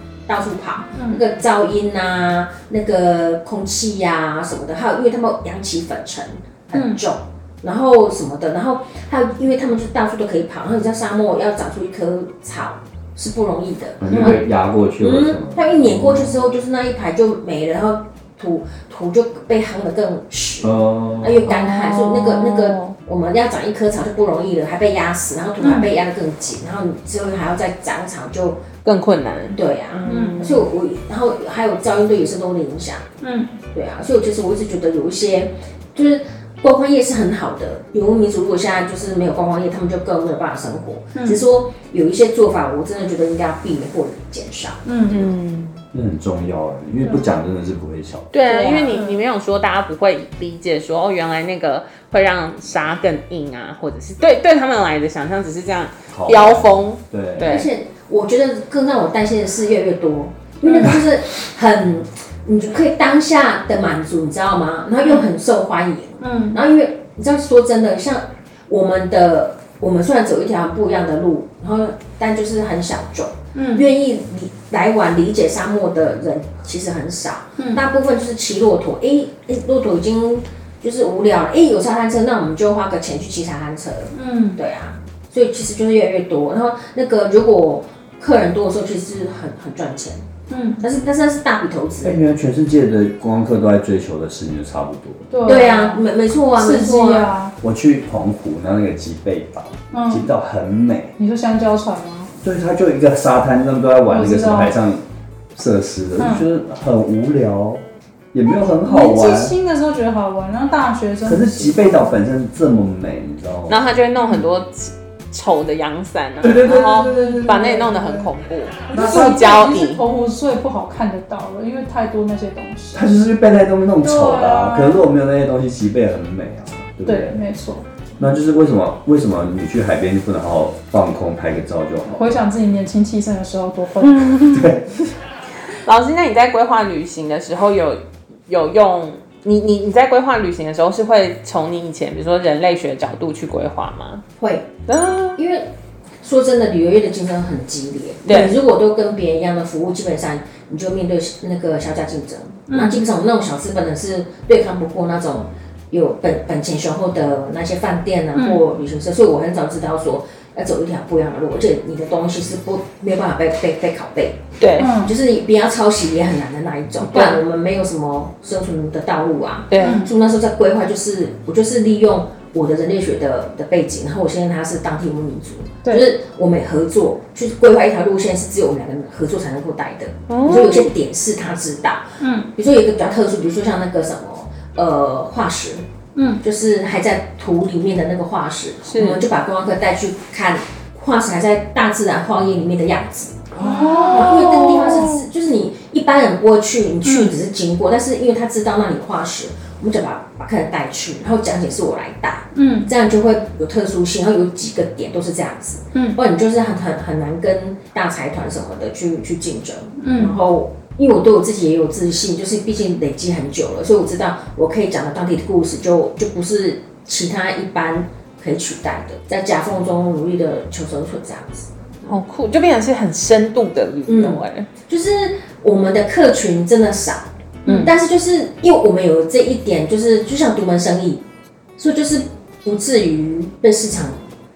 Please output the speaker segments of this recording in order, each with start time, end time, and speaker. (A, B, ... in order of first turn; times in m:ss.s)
0:00.3-0:14.4 A
0:01.0-0:01.2 B
0:06.7-0:07.0 B
0:14.0-0:16.4 C
0:15.0-0:28.6 A
0:20.6-0:21.5 C
0:21.5-0:22.7 D
0:22.4-0:22.8 B
0:25.6-0:25.9 B
0:28.8-0:30.6 D
0:29.5-0:33.0 A
0:30.1-0:30.5 B
0:33.2-0:33.6 B
0:33.7-0:44.8 A
0:41.2-0:41.4 B
0:44.9-0:45.3 B
0:45.1-0:45.8 D
0:45.9-0:48.4 C
0:48.3-0:57.7 D
0:48.4-0:49.0 A
0:48.9-0:49.2 B
0:56.1-0:57.5 C
0:57.5-1:30.2 A
1:00.6-1:01.0 B
1:06.2-1:06.6 B
1:13.6-1:13.9 B
1:17.6-1:17.8 B
1:24.1-1:24.6 B
1:30.5-1:30.8 B
1:30.8-1:32.2 A
1:32.0-1:35.3 C
1:35.3-1:37.6 B
1:35.4-1:37.3 A
1:37.6-1:41.1 C
1:39.9-1:40.3 B
1:41.2-1:42.3 B
1:42.4-1:45.0 C
1:44.1-1:44.8 B
1:45.6-1:49.6 C
1:46.2-1:46.4 B
1:48.8-1:52.2 B
1:51.2-1:53.8 C
1:53.7-2:00.0 D
1:56.4-1:57.8 C
1:56.7-1:58.3 B
1:58.9-2:03.1 B
1:58.9-1:59.4 C
2:02.9-2:07.4 C
2:04.0-2:05.0 B
2:07.0-2:08.3 B
2:08.2-2:12.3 C
2:12.1-2:14.8 B
2:14.2-2:14.9 C
2:15.7-2:24.2 D
2:24.4-2:24.7 A
2:24.9-2:25.4 D
2:25.4-2:25.7 A
2:26.2-2:44.4 A
2:28.3-2:28.6 D
2:32.7-2:33.0 B
2:38.4-2:38.6 B
2:44.6-2:44.9 D
2:44.8-2:45.2 B
2:45.0-3:05.8 A
2:47.1-2:47.4 D
2:49.7-2:50.0 D
2:49.8-2:50.1 B
3:00.3-3:00.9 D
3:02.2-3:02.5 B
3:06.2-3:06.4 B
3:06.4-3:13.5 A
3:08.9-3:09.2 D
3:13.6-3:15.3 B
3:13.6-3:14.7 D
3:14.1-3:42.1 A
3:17.0-3:17.4 B
3:22.5-3:22.9 B
3:30.0-3:30.4 B
3:42.1-3:44.7 D
3:44.1-3:51.2 A
3:47.7-3:47.9 D
3:51.8-3:54.2 A